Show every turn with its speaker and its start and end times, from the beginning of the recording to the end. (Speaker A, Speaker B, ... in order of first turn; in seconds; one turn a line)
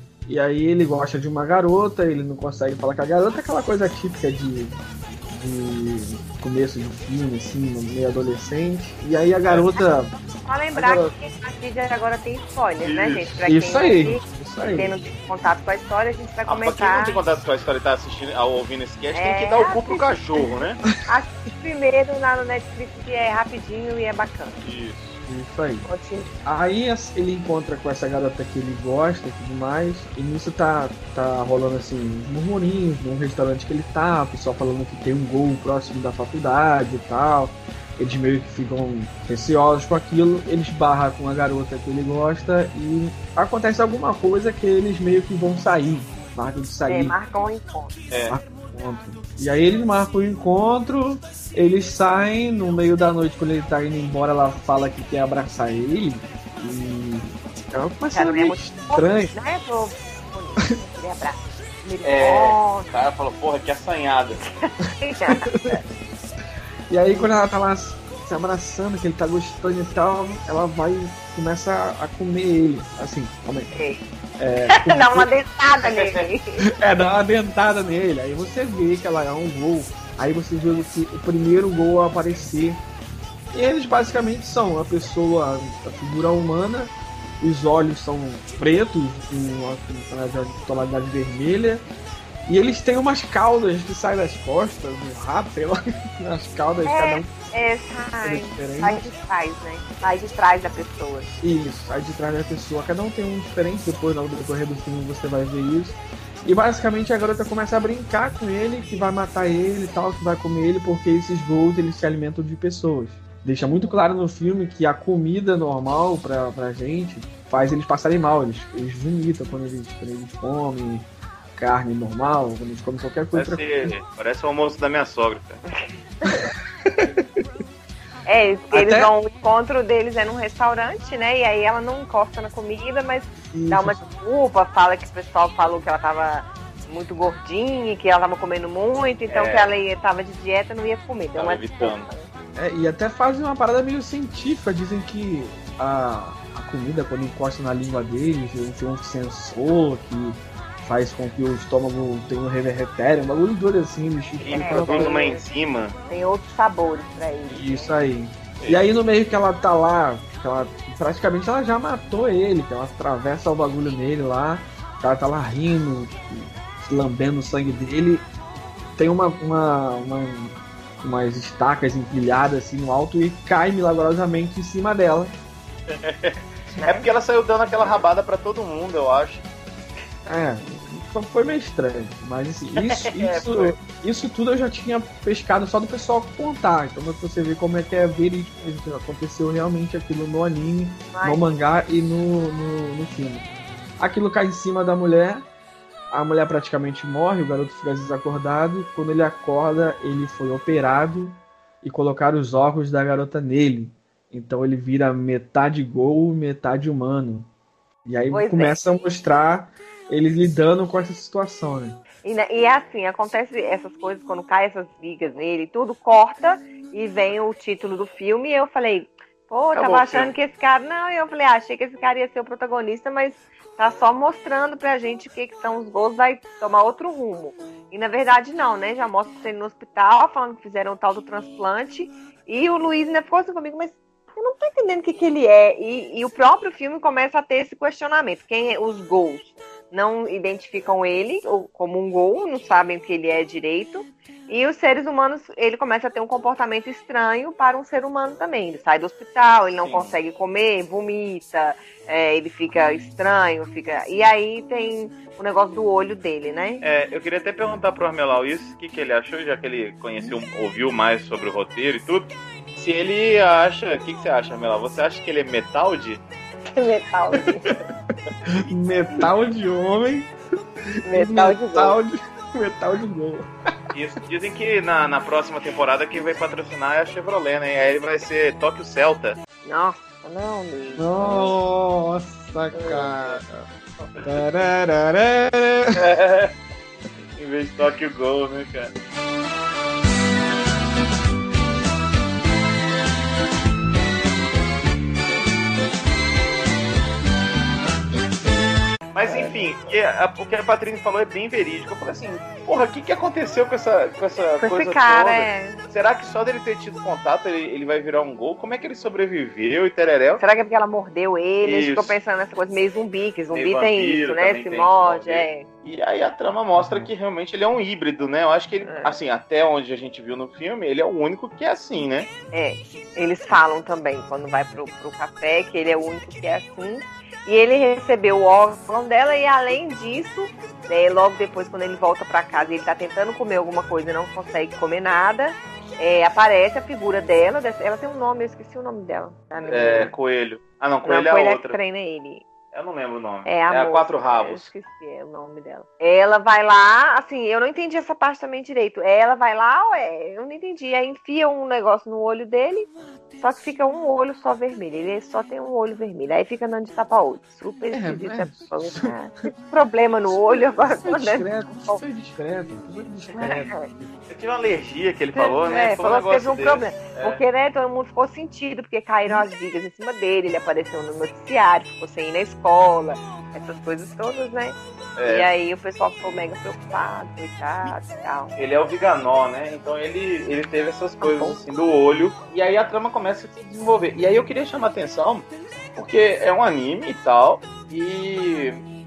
Speaker A: 0.2-4.8
Speaker A: 5.3-10.1
Speaker B: 9.8-17.2
Speaker A: 10.7-11.1
Speaker C: 12.8-13.3
Speaker A: 13.4-14.9
Speaker C: 16.4-20.8
Speaker B: 19.1-20.1
Speaker B: 21.0-24.6
Speaker C: 24.6-25.2
Speaker A: 25.2-25.9
Speaker B: 25.8-26.3
Speaker A: 26.4-47.2
Speaker B: 46.9-48.0
Speaker C: 48.1-48.4
Speaker A: 48.3-59.3
Speaker B: 58.1-62.9
Speaker C: 62.0-64.4
Speaker B: 64.4-65.8
Speaker A: 65.3-65.8
Speaker A: 66.9-73.7
Speaker B: 73.7-74.0
Speaker A: 74.4-75.3
Speaker B: 74.7-76.6
Speaker C: 75.8-76.2
Speaker A: 76.6-82.8
Speaker A: 83.5-91.8
Speaker A: 92.5-97.3
Speaker B: 96.8-101.3
Speaker A: 98.2-99.0
Speaker A: 101.4-123.9
Speaker B: 113.6-114.0
Speaker C: 123.3-125.6
Speaker B: 126.2-126.5
Speaker A: 127.0-127.4
Speaker B: 128.2-142.3
Speaker A: 128.7-129.1
Speaker A: 133.4-134.0
Speaker C: 139.3-139.7
Speaker C: 141.3-142.1
Speaker A: 142.6-155.2
Speaker C: 154.4-155.9
Speaker B: 154.5-155.4
Speaker B: 156.1-157.9
Speaker A: 157.5-168.3
Speaker A: 168.9-175.3
Speaker C: 175.9-179.4
Speaker B: 176.8-177.1
Speaker A: 180.2-195.5
Speaker C: 182.7-183.7
Speaker B: 191.1-191.6
Speaker A: 196.1-207.5
Speaker A: 208.0-212.0
Speaker B: 208.3-208.8
Speaker B: 212.2-256.8
Speaker C: 219.7-220.3
Speaker C: 249.8-250.2
Speaker C: 256.8-266.2
Speaker B: 266.7-267.7
Speaker A: 268.6-270.3
Speaker B: 271.0-272.0
Speaker A: 271.1-273.5
Speaker C: 273.9-279.4
Speaker B: 279.6-281.5
Speaker A: 281.0-283.6
Speaker B: 282.7-283.4
Speaker A: 284.2-286.0
Speaker C: 285.9-286.5
Speaker C: 287.4-288.9
Speaker C: 299.1-310.4
Speaker B: 299.2-299.6
Speaker B: 304.6-305.8
Speaker B: 310.4-315.6
Speaker C: 311.6-312.2
Speaker C: 313.5-322.3
Speaker A: 316.8-317.1
Speaker B: 318.8-319.2
Speaker B: 322.5-340.1
Speaker C: 339.6-341.8
Speaker B: 341.1-342.4
Speaker C: 342.7-344.7
Speaker B: 343.4-362.0
Speaker A: 357.9-359.5
Speaker A: 360.3-364.2
Speaker B: 363.3-363.8
Speaker C: 364.3-367.4
Speaker B: 365.3-374.8
Speaker C: 375.2-375.5
Speaker B: 375.3-378.5
Speaker C: 378.6-388.8
Speaker B: 381.2-381.6